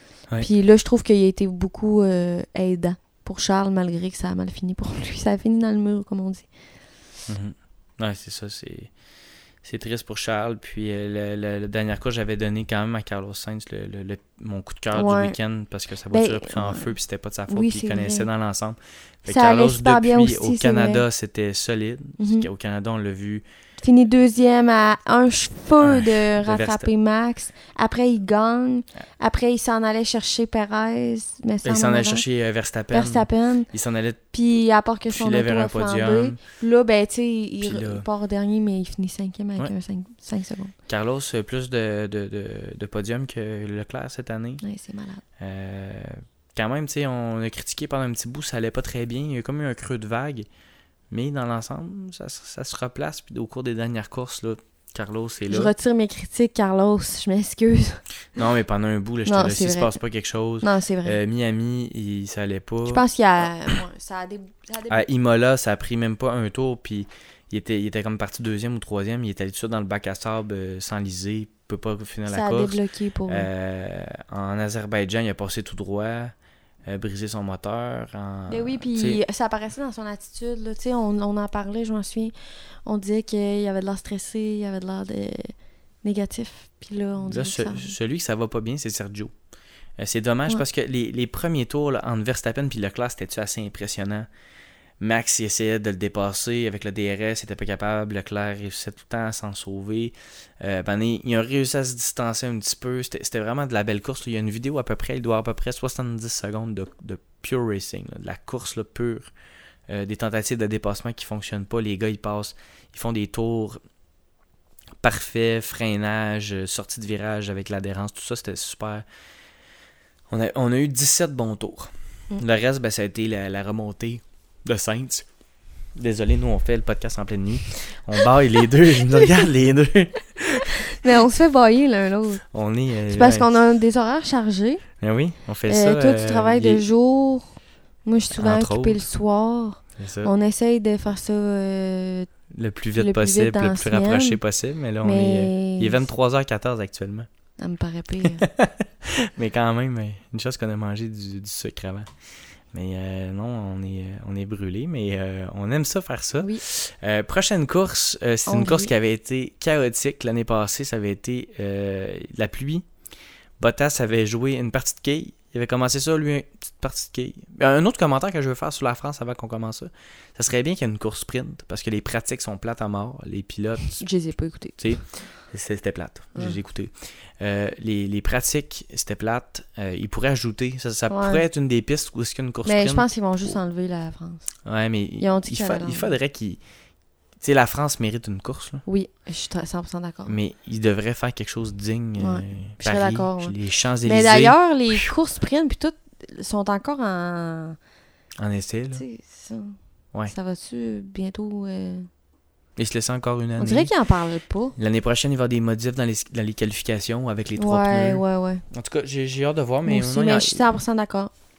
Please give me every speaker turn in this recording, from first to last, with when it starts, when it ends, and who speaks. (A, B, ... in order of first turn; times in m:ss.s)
0:00.4-0:06.5 A
0:07.3-0:08.9 B
0:09.6-0:23.4 B
0:14.9-0:15.4 A
0:16.1-0:16.9 A
0:17.5-0:18.3 A
0:19.3-0:21.0 A
0:22.2-0:22.5 A
0:23.8-0:32.2 A
0:25.8-0:26.9 B
0:31.6-0:34.2 B
0:32.9-0:33.7 A
0:34.3-0:40.8 A
0:35.1-0:36.4 B
0:37.6-0:38.1 B
0:40.9-0:44.6 B
0:44.6-0:45.2 A
0:45.4-0:50.5 B
0:51.1-0:55.7 B
0:55.5-0:58.4 A
0:58.4-1:03.0 B
0:59.3-1:00.0 A
1:00.6-1:01.2 A
1:02.9-1:05.1 A
1:04.9-1:16.3 B
1:12.3-1:13.5 A
1:16.9-1:19.2 B
1:18.5-1:22.3 A
1:22.8-1:28.0 A
1:27.3-1:29.3 B
1:30.0-1:34.3 B
1:35.0-1:49.3 B
1:49.9-1:53.8 B
1:55.0-1:59.1 B
2:00.3-2:05.3 B
2:06.0-2:11.2 B
2:10.8-2:12.4 A
2:12.5-2:13.5 B
2:13.1-2:14.8 A
2:15.0-2:16.8 B
2:15.7-2:22.3 A
2:18.4-2:19.0 B
2:20.0-2:20.3 B
2:22.5-2:27.3 B
2:23.0-2:24.4 A
2:25.0-2:26.0 A
2:27.6-2:28.5 A
2:28.2-2:32.1 B
2:32.7-2:42.9 B
2:38.5-2:38.9 A
2:43.6-2:54.0 B
2:54.0-2:55.3 A
2:54.8-3:03.1 B
3:01.1-3:01.4 A
3:02.6-3:04.5 A
3:04.6-3:06.6 B
3:05.2-3:06.2 A
3:07.4-3:08.8 B
3:08.9-3:10.4 A
3:10.3-3:15.1 B
3:12.2-3:17.8 A
3:18.4-3:19.0 B
3:18.9-3:19.8 A
3:20.3-3:22.1 A
3:22.8-3:23.9 B
3:23.6-3:24.8 A
3:24.8-3:30.6 B
3:27.6-3:28.6 A
3:29.9-3:31.3 A